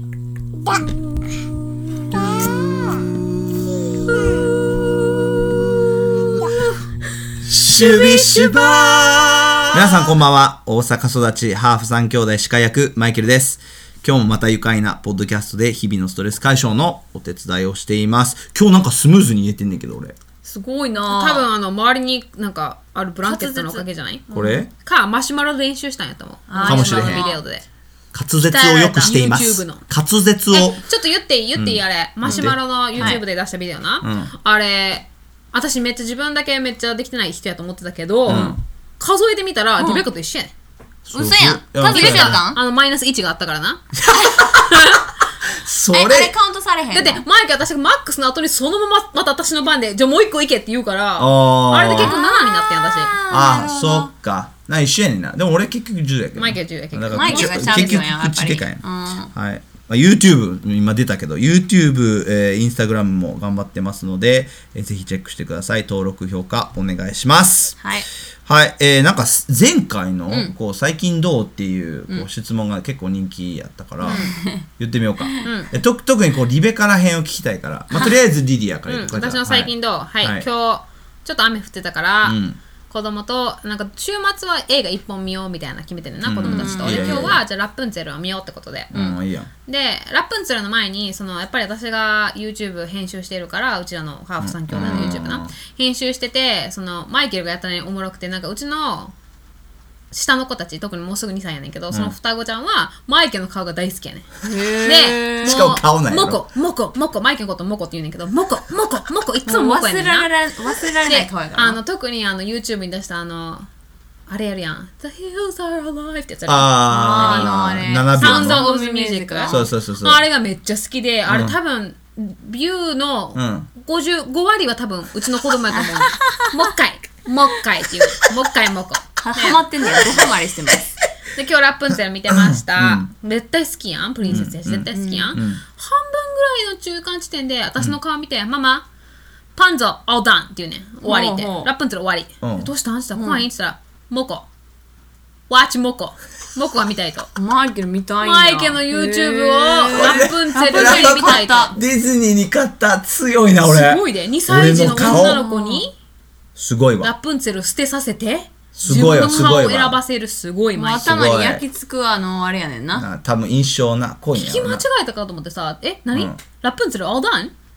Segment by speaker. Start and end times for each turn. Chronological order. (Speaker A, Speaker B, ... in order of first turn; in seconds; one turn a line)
Speaker A: 2.2-3.1
Speaker A: 7.4-20.2
Speaker B: 7.7-10.1
Speaker C: 20.4-21.5
Speaker B: 21.1-27.6
Speaker C: 23.2-24.6
Speaker A: 24.3-24.7
Speaker C: 26.5-27.4
Speaker A: 26.6-27.3
Speaker A: 28.1-30.8
Speaker C: 28.5-29.1
Speaker B: 28.7-29.8
Speaker B: 30.5-40.5
Speaker A: 31.6-33.2
Speaker C: 32.3-33.2
Speaker A: 34.0-34.3
Speaker A: 38.3-38.6
Speaker C: 38.3-38.6
Speaker C: 39.8-40.1
Speaker A: 41.0-42.4
Speaker C: 41.1-42.6
Speaker B: 41.8-43.8
Speaker A: 44.0-44.9
Speaker B: 44.6-45.1
Speaker A: 45.5-46.3
Speaker C: 45.9-47.2
Speaker B: 46.9-53.1
Speaker A: 51.2-52.1
Speaker C: 52.0-54.1
Speaker A: 53.3-58.8
Speaker B: 56.4-58.0
Speaker C: 57.1-59.3
Speaker A: 59.3-67.8
Speaker C: 67.8-68.1
Speaker A: 68.5-80.5
Speaker C: 74.0-74.7
Speaker B: 74.0-74.3
Speaker C: 75.2-75.5
Speaker B: 75.4-75.7
Speaker B: 78.9-89.2
Speaker A: 82.2-82.6
Speaker A: 86.2-87.4
Speaker C: 86.4-87.4
Speaker A: 88.9-89.5
Speaker B: 89.7-99.1
Speaker A: 94.4-95.5
Speaker C: 94.8-95.2
Speaker B: 100.1-110.3
Speaker C: 104.5-105.6
Speaker A: 105.4-106.4
Speaker C: 109.5-111.8
Speaker B: 110.9-113.7
Speaker B: 114.3-117.6
Speaker A: 116.5-118.7
Speaker C: 116.9-119.6
Speaker B: 118.2-130.1
Speaker A: 119.5-120.2
Speaker A: 121.3-121.5
Speaker A: 123.3-123.7
Speaker C: 125.7-126.7
Speaker C: 129.2-130.9
Speaker B: 131.3-138.8
Speaker A: 132.3-133.1
Speaker C: 134.3-135.4
Speaker A: 134.3-135.6
Speaker B: 139.6-144.5
Speaker C: 141.0-141.7
Speaker A: 142.4-142.7
Speaker C: 143.2-143.4
Speaker B: 145.5-147.3
Speaker C: 147.3-151.7
Speaker B: 148.2-151.7
Speaker A: 149.9-155.4
Speaker B: 153.7-155.9
Speaker C: 154.9-155.9
Speaker A: 156.6-157.1
Speaker B: 157.0-161.1
Speaker A: 158.8-160.0
Speaker C: 158.9-159.6
Speaker C: 160.8-163.1
Speaker A: 161.0-161.6
Speaker A: 162.9-164.8
Speaker B: 164.3-167.5